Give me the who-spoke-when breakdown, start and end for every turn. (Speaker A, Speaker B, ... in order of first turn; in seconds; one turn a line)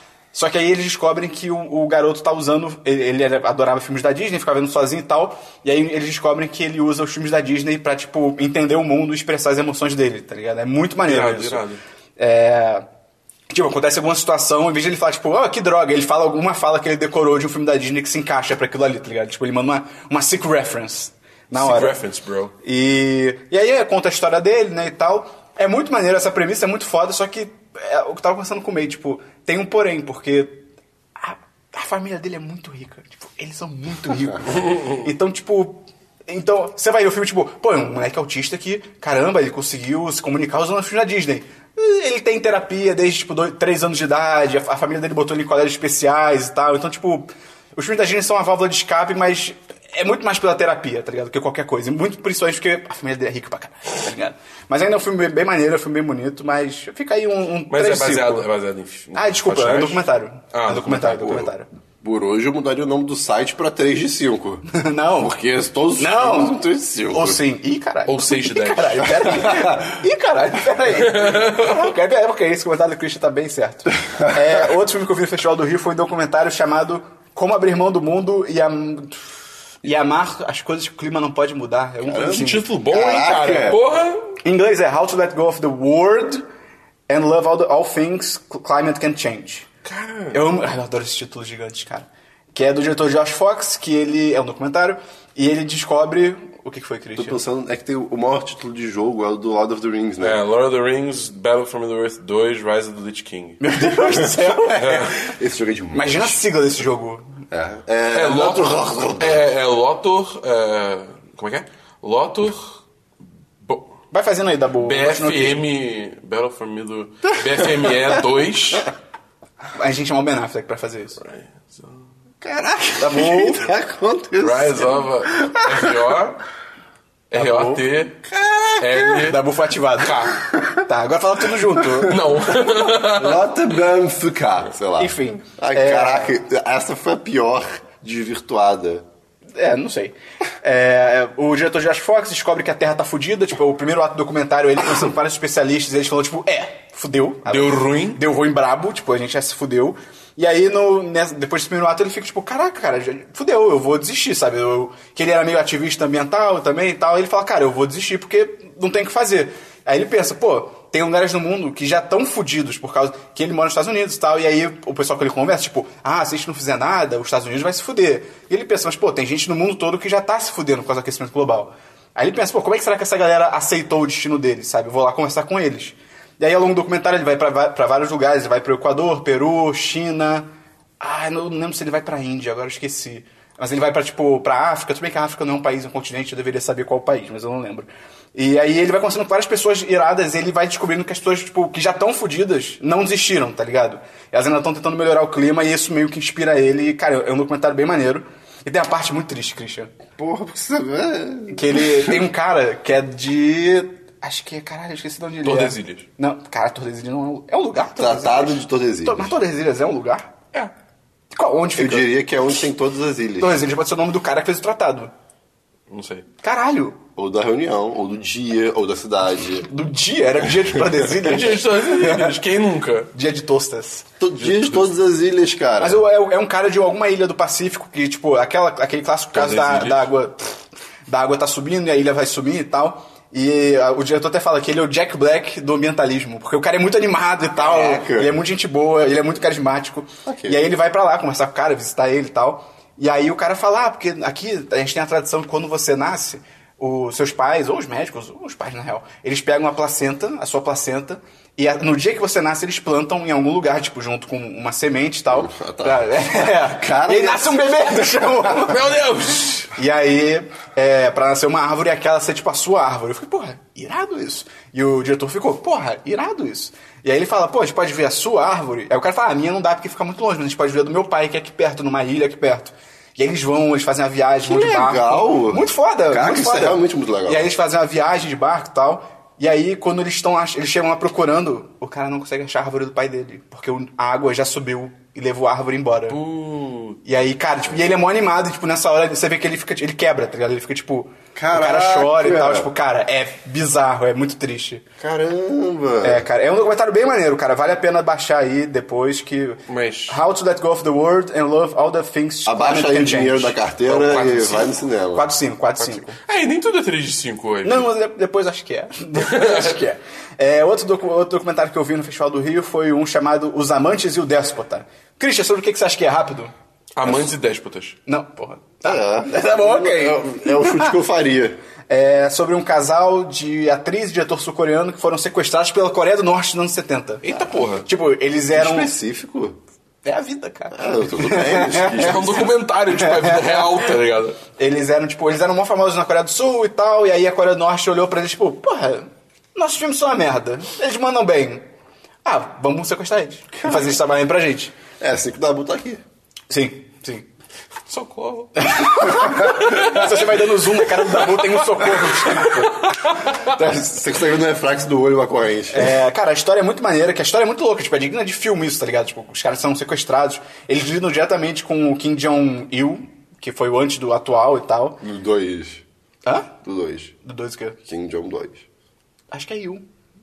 Speaker A: 0.3-11.6
Speaker B: 11.0-11.8
Speaker A: 12.2-12.8
Speaker A: 13.5-22.0
Speaker B: 21.5-22.5
Speaker A: 22.6-30.6
Speaker A: 31.2-58.5
Speaker B: 57.7-61.4
Speaker A: 59.1-61.7
Speaker C: 61.1-61.5
Speaker C: 62.0-64.6
Speaker A: 64.7-65.3
Speaker C: 65.2-67.4
Speaker A: 66.0-66.6
Speaker A: 67.1-79.2
Speaker B: 68.1-69.5
Speaker B: 70.9-71.9
Speaker A: 79.8-82.8
Speaker C: 82.1-83.8
Speaker B: 82.1-84.4
Speaker A: 84.4-86.4
Speaker A: 87.1-89.7
Speaker B: 89.8-90.4
Speaker A: 90.3-97.4
Speaker C: 97.2-100.4
Speaker B: 100.2-103.7
Speaker A: 103.6-105.1
Speaker C: 104.0-106.4
Speaker B: 104.8-105.2
Speaker A: 105.9-107.3
Speaker C: 107.5-109.5
Speaker B: 108.1-112.8
Speaker B: 113.6-113.9
Speaker A: 114.1-115.6
Speaker B: 114.8-118.9
Speaker C: 117.5-118.2
Speaker A: 119.7-121.2
Speaker B: 121.2-122.0
Speaker C: 122.4-126.2
Speaker A: 123.0-123.7
Speaker B: 124.4-126.4
Speaker B: 127.3-128.2
Speaker A: 127.3-127.8
Speaker C: 128.3-129.3
Speaker B: 128.8-129.5
Speaker A: 129.1-132.2
Speaker B: 130.0-130.4
Speaker C: 130.4-130.8
Speaker B: 132.0-133.5
Speaker C: 132.5-139.1
Speaker A: 135.0-136.4
Speaker A: 139.6-180.5
Speaker B: 147.5-148.2
Speaker A: 181.0-199.9
Speaker C: 200.2-202.2
Speaker A: 201.5-210.3
Speaker B: 205.4-206.1
Speaker C: 208.0-209.4
Speaker A: 211.3-212.1
Speaker C: 211.8-213.7
Speaker A: 213.4-215.1
Speaker B: 215.9-216.3
Speaker A: 216.4-217.0
Speaker C: 217.2-219.7
Speaker A: 219.6-222.4
Speaker B: 221.2-223.1
Speaker A: 223.1-224.1
Speaker C: 224.2-226.0
Speaker B: 224.4-224.9
Speaker A: 225.8-258.9
Speaker B: 229.3-230.1
Speaker C: 237.6-238.4
Speaker C: 240.2-240.6
Speaker C: 255.3-258.5
Speaker B: 258.6-259.7
Speaker A: 259.8-286.2
Speaker C: 274.5-277.5
Speaker B: 286.1-287.0
Speaker A: 287.0-294.8
Speaker C: 291.4-292.7
Speaker C: 295.0-296.3
Speaker A: 296.0-303.6
Speaker B: 299.7-300.2
Speaker C: 302.5-305.3
Speaker B: 303.9-304.7
Speaker A: 305.1-306.2
Speaker B: 305.8-307.9
Speaker A: 307.6-316.5
Speaker B: 309.2-309.8
Speaker B: 317.0-318.0
Speaker A: 318.1-320.9
Speaker C: 318.8-321.6
Speaker A: 321.9-328.9
Speaker B: 327.2-327.9
Speaker C: 328.5-329.6
Speaker A: 330.1-333.8
Speaker C: 330.7-332.4
Speaker B: 331.9-334.4
Speaker A: 334.6-341.6
Speaker A: 342.2-344.7
Speaker C: 343.6-344.0
Speaker C: 345.0-346.0
Speaker A: 346.5-347.3
Speaker B: 347.9-348.8
Speaker A: 348.6-353.0
Speaker C: 349.2-349.5
Speaker B: 349.6-350.2
Speaker B: 350.8-353.4
Speaker C: 353.4-356.0
Speaker A: 355.7-365.0
Speaker C: 365.0-365.8
Speaker A: 366.2-366.5
Speaker C: 366.6-367.1
Speaker A: 367.2-367.8
Speaker C: 367.9-368.6
Speaker A: 369.3-369.8